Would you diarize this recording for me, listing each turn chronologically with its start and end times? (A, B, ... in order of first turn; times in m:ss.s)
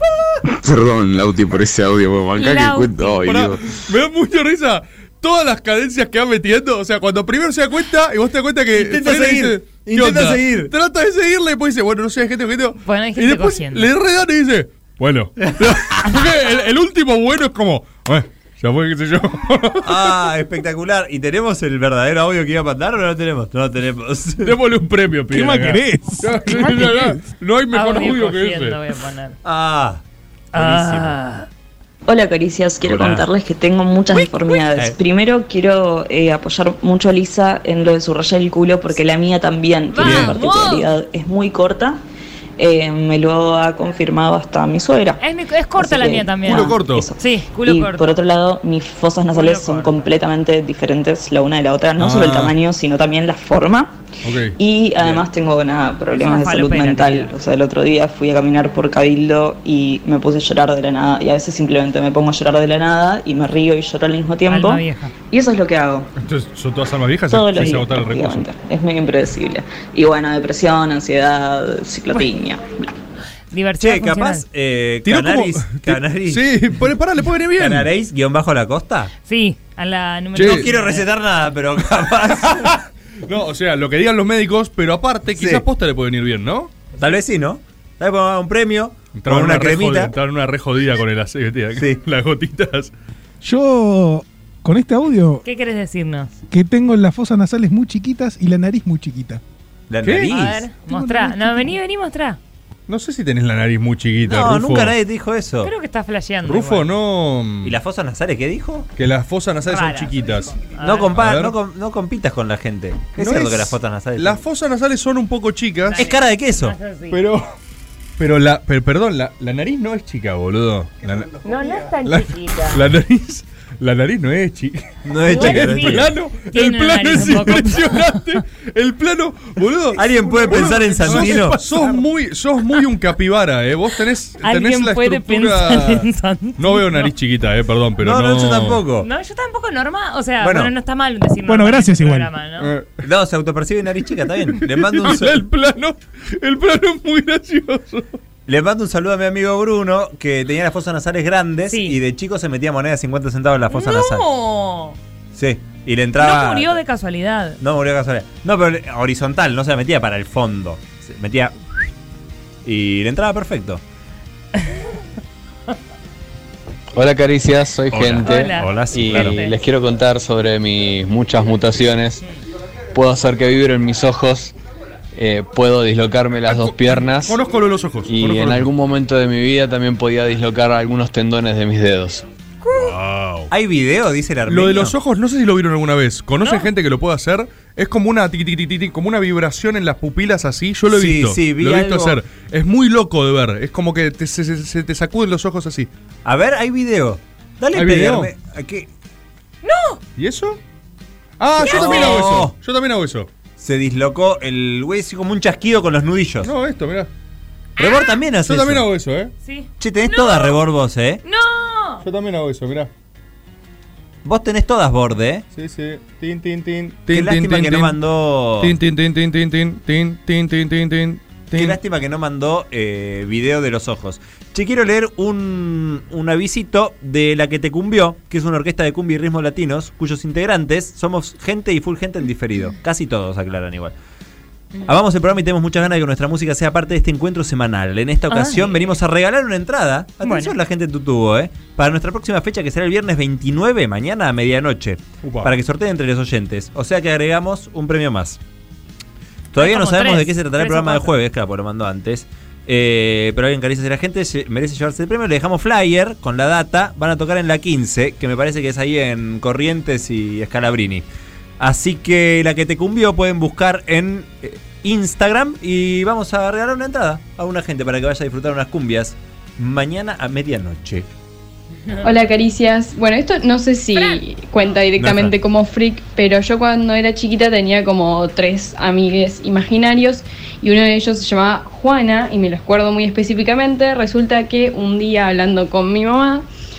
0:00.6-0:03.6 A
0:02.4-0:03.3 B
0:03.3-0:20.2 C
0:08.7-0:10.7 D
0:12.8-0:13.9 B
0:19.8-0:24.5 D
0:24.4-0:28.8 C
0:25.3-0:27.2 E
0:27.7-0:29.4 B
0:29.4-0:30.0 D
0:30.5-0:31.5 B
0:30.6-0:31.2 D
0:32.1-0:42.0 F
0:32.8-0:33.3 D
0:39.9-0:40.9 B
0:40.0-0:40.4 D
0:42.6-0:45.2 F
0:45.2-0:48.1 B
0:45.8-0:53.9 F
0:46.4-0:47.1 C
0:49.3-0:50.1 B
0:52.0-0:52.6 C
0:54.2-0:55.2 C
0:54.6-1:06.1 F
0:56.1-0:57.3 B
1:04.5-1:05.1 B
1:06.2-1:08.5 C
1:07.3-1:12.9 F
1:13.5-1:14.4 B
1:13.8-1:16.4 D
1:15.0-1:17.9 C
1:17.6-1:19.1 D
1:19.2-1:21.1 B
1:20.4-1:20.7 C
1:20.4-1:22.8 D
1:22.4-1:26.7 C
1:25.4-1:25.6 D
1:27.0-1:30.1 D
1:29.2-1:32.9 C
1:33.4-1:35.4 E
1:35.4-1:36.4 B
1:36.5-1:39.4 E
1:39.9-1:40.7 D
1:40.0-1:40.3 C
1:40.3-1:42.4 B
1:40.9-1:41.7 E
1:42.9-1:45.0 C
1:44.2-1:45.7 D
1:45.6-1:46.9 B
1:46.4-1:47.8 C
1:47.6-1:48.9 D
1:49.0-1:50.6 C
1:49.7-1:51.1 B
1:50.8-1:54.4 D
1:51.1-1:51.6 C
1:53.2-1:56.0 C
1:55.9-1:56.7 D
1:56.0-1:57.2 B
1:57.1-1:57.4 C
1:58.2-2:01.4 C
2:01.4-2:02.8 B
2:02.0-2:16.1 C
2:05.1-2:06.1 D
2:05.3-2:08.2 B
2:10.0-2:11.6 D
2:14.4-2:17.1 B
2:16.6-2:18.8 C
2:18.0-2:19.1 D
2:19.0-2:22.7 B
2:20.4-2:20.7 D
2:21.4-2:22.3 E
2:22.6-2:23.0 C
2:23.0-2:25.4 D
2:24.6-2:28.1 C
2:28.5-2:34.2 D
2:31.7-2:32.0 B
2:33.7-2:35.0 B
2:35.3-2:36.8 D
2:36.2-2:37.6 B
2:37.6-2:41.5 D
2:42.6-2:43.8 D
2:47.0-2:52.2 G
2:47.9-2:49.4 D
2:48.2-2:49.6 B
2:52.9-2:54.5 G
2:55.2-2:57.4 G
2:56.4-2:58.7 C
2:58.1-3:02.2 G
3:02.7-3:03.5 C
3:03.5-3:05.0 D
3:04.5-3:15.9 C
3:06.4-3:06.7 B
3:10.9-3:12.2 D
3:16.2-3:18.9 D
3:17.7-3:18.3 C
3:19.6-3:20.0 B
3:20.2-3:20.6 C
3:21.4-3:23.3 C
3:21.6-3:22.2 B
3:21.6-3:22.5 D
3:23.6-3:26.5 D
3:26.4-3:27.1 C
3:27.8-3:28.2 B
3:27.8-3:28.8 D
3:28.4-3:29.3 C
3:29.4-3:30.6 B
3:29.8-3:31.2 D
3:31.2-3:32.0 B
3:32.0-3:32.9 C
3:34.2-3:35.4 D
3:35.5-3:38.0 C
3:37.1-3:38.7 D
3:38.6-3:41.8 C
3:41.5-3:54.0 D
3:54.9-4:08.4 D
3:58.3-3:59.0 B
4:00.2-4:00.5 B
4:05.2-4:05.6 C
4:09.5-4:21.0 D
4:09.6-4:11.1 B
4:21.6-4:31.1 D
4:31.9-4:32.3 B
4:32.0-4:46.4 H
4:33.9-4:34.2 B
4:35.0-4:35.4 D